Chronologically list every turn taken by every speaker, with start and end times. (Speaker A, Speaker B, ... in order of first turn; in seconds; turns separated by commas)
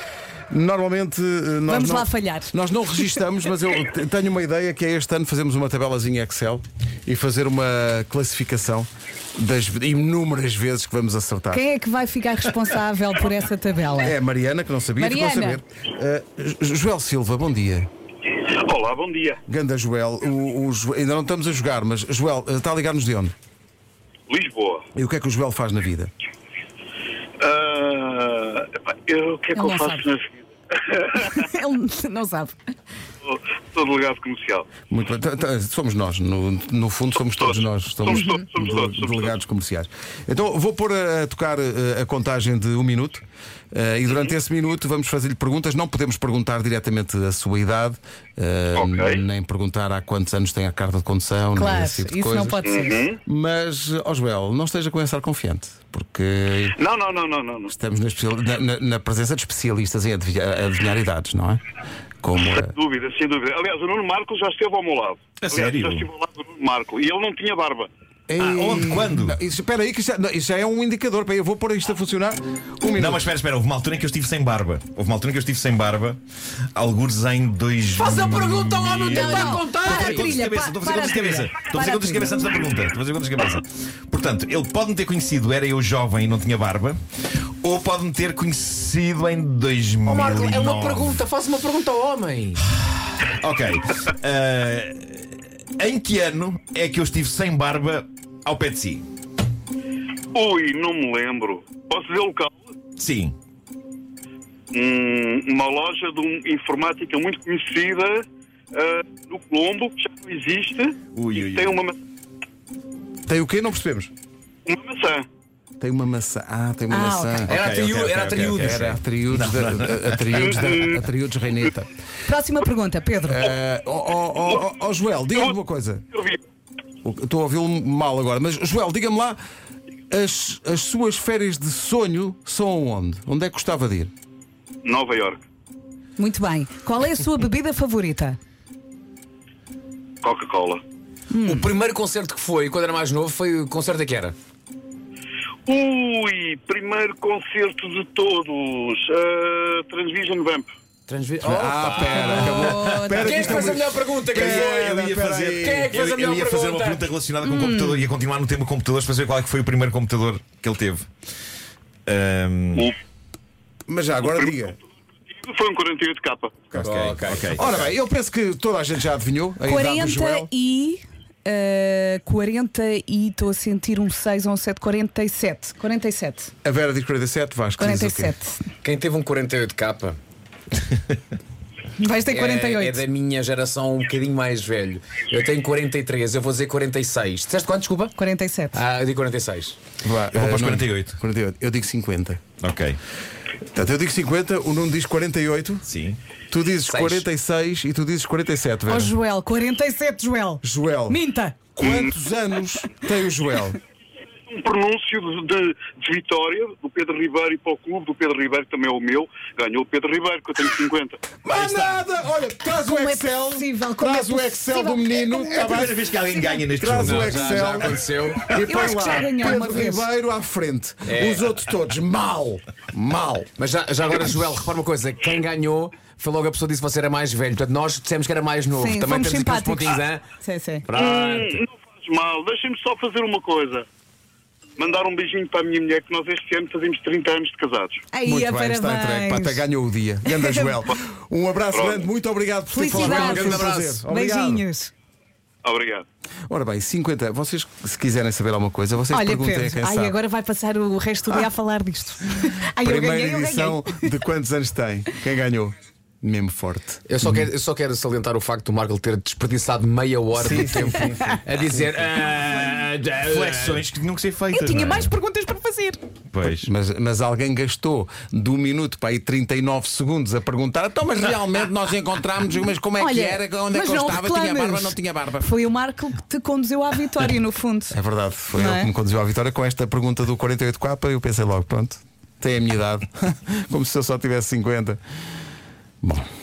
Speaker A: 0.5-11.7, Speaker B: 1.7-2.5, Speaker B: 11.5-14.2, Speaker A: 14.0-17.9, Speaker B: 15.0-15.6, Speaker C: 18.4-19.4, Speaker A: 19.5-23.3, Speaker C: 24.3-24.9, Speaker A: 24.9-26.1, Speaker C: 27.4-31.4, Speaker B: 29.5-30.1, Speaker B: 31.2-32.6, Speaker C: 33.2-34.7, Speaker A: 34.9-52.6, Speaker C: 38.0-39.3, Speaker B: 38.1-38.4, Speaker C: 48.7-49.2, Speaker B: 51.5-53.1, Speaker C: 52.6-53.2, Speaker A: 53.2-56.8, Speaker C: 56.8-57.7, Speaker A: 57.7-61.6, Speaker A: 62.2-62.7, Speaker C: 62.6-67.9, Speaker D: 65.4-66.1, Speaker A: 68.3-73.2, Speaker D: 68.4-69.4, Speaker D: 73.0-76.2, Speaker D: 76.7-87.0, Speaker E: 78.0-80.3, Speaker B: 79.1-82.4, Speaker D: 87.6-91.2, Speaker E: 90.0-92.6, Speaker D: 93.3-99.0, Speaker C: 100.3-102.6, Speaker D: 103.0-103.3, Speaker C: 104.7-112.0, Speaker D: 111.1-111.7, Speaker A: 113.3-114.1, Speaker C: 114.7-115.2, Speaker A: 115.8-117.5, Speaker B: 116.9-117.5, Speaker D: 117.5-120.5, Speaker E: 117.5-119.0, Speaker A: 118.3-121.9, Speaker C: 120.3-120.9, Speaker B: 122.2-123.5, Speaker A: 123.3-126.0, Speaker C: 126.1-126.4, Speaker A: 127.0-129.4, Speaker A: 130.1-134.1, Speaker C: 134.8-135.4, Speaker B: 136.2-138.4, Speaker C: 140.2-140.8, Speaker B: 141.3-141.7, Speaker E: 141.4-144.3, Speaker C: 145.7-150.7, Speaker E: 151.1-157.0, Speaker A: 151.4-155.9, Speaker B: 152.1-153.7, Speaker D: 152.5-153.1, Speaker D: 154.2-161.1, Speaker B: 157.4-158.0, Speaker D: 162.1-162.9, Speaker A: 163.9-164.8, Speaker C: 165.4-166.6, Speaker D: 166.7-167.9, Speaker E: 166.8-167.6, Speaker A: 167.6-170.5, Speaker B: 169.6-176.5, Speaker A: 176.6-178.3, Speaker B: 177.8-178.7, Speaker E: 178.8-180.2, Speaker B: 182.0-183.0, Speaker E: 182.2-188.2, Speaker B: 188.1-188.8, Speaker E: 188.7-189.8, Speaker A: 190.0-192.4, Speaker D: 190.3-191.2, Speaker D: 192.6-193.0, Speaker A: 193.7-195.9, Speaker D: 195.8-196.2, Speaker A: 196.5-199.1, Speaker E: 196.8-197.3, Speaker B: 198.9-201.7, Speaker A: 200.6-201.2, Speaker A: 201.7-203.8, Speaker C: 201.8-202.0, Speaker C: 204.5-211.2, Speaker A: 211.4-216.0, Speaker D: 211.5-212.1, Speaker B: 212.7-215.7, Speaker D: 215.5-217.8, Speaker A: 216.7-223.5, Speaker E: 217.0-218.6, Speaker B: 218.5-220.1, Speaker E: 221.1-221.5, Speaker E: 223.6-231.6, Speaker B: 228.7-230.9, Speaker C: 230.9-233.8, Speaker C: 234.8-238.0, Speaker B: 238.1-239.6, Speaker A: 238.2-244.6, Speaker B: 240.2-240.8, Speaker C: 241.7-242.0, Speaker B: 242.7-244.9, Speaker E: 242.8-244.0, Speaker C: 245.6-246.0, Speaker A: 246.5-250.2, Speaker B: 249.1-254.1, Speaker A: 252.8-257.4, Speaker E: 257.1-263.8, Speaker A: 260.3-262.1, Speaker B: 260.5-261.4, Speaker D: 263.2-265.1, Speaker B: 264.5-266.0, Speaker D: 266.3-266.7, Speaker A: 266.6-275.5, Speaker B: 273.0-277.9, Speaker A: 277.9-285.0, Speaker B: 278.5-278.9, Speaker A: 286.0-286.3